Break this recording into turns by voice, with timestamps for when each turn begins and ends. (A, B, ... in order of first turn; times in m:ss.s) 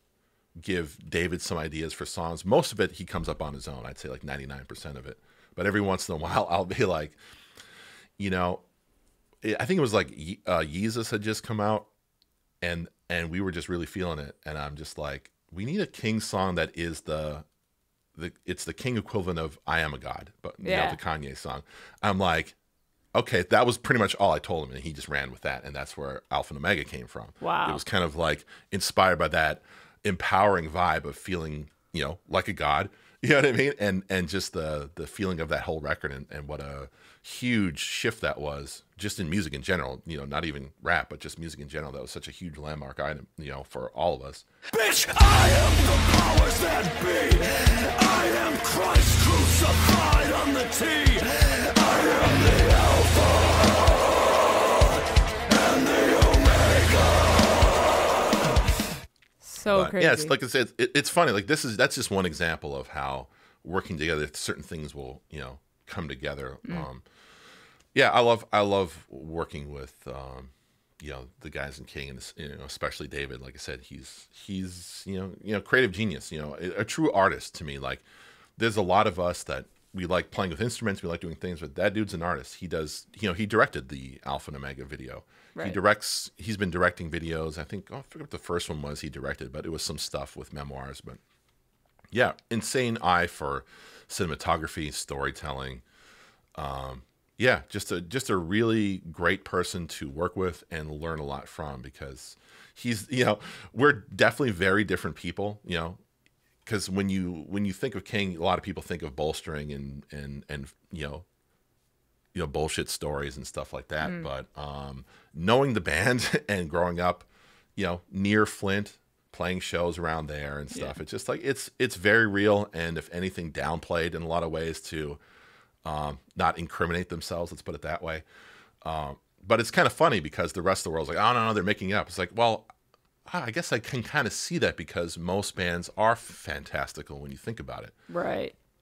0:00.6-0:07.2 A
0:08.2-0:08.6 A
0:09.4-0:11.9 A
0:12.6-0:17.5 A
0:18.2-0:22.6 A
0:20.6-0:21.0 B
0:23.1-0:44.4 A
0:27.4-0:27.8 B
0:44.7-0:54.4 C
0:55.5-0:57.8 C
0:59.4-1:00.3 B
0:59.7-1:07.0 A
1:07.9-1:18.0 A
1:18.6-1:31.2 A
1:32.1-1:35.8 A
1:36.6-1:46.0 A
1:46.6-1:51.3 A
1:52.3-2:05.2 A
1:54.0-1:54.3 B
2:05.8-2:08.2 A
2:08.8-2:12.7 A
2:13.3-2:18.0 A
2:18.1-2:18.5 B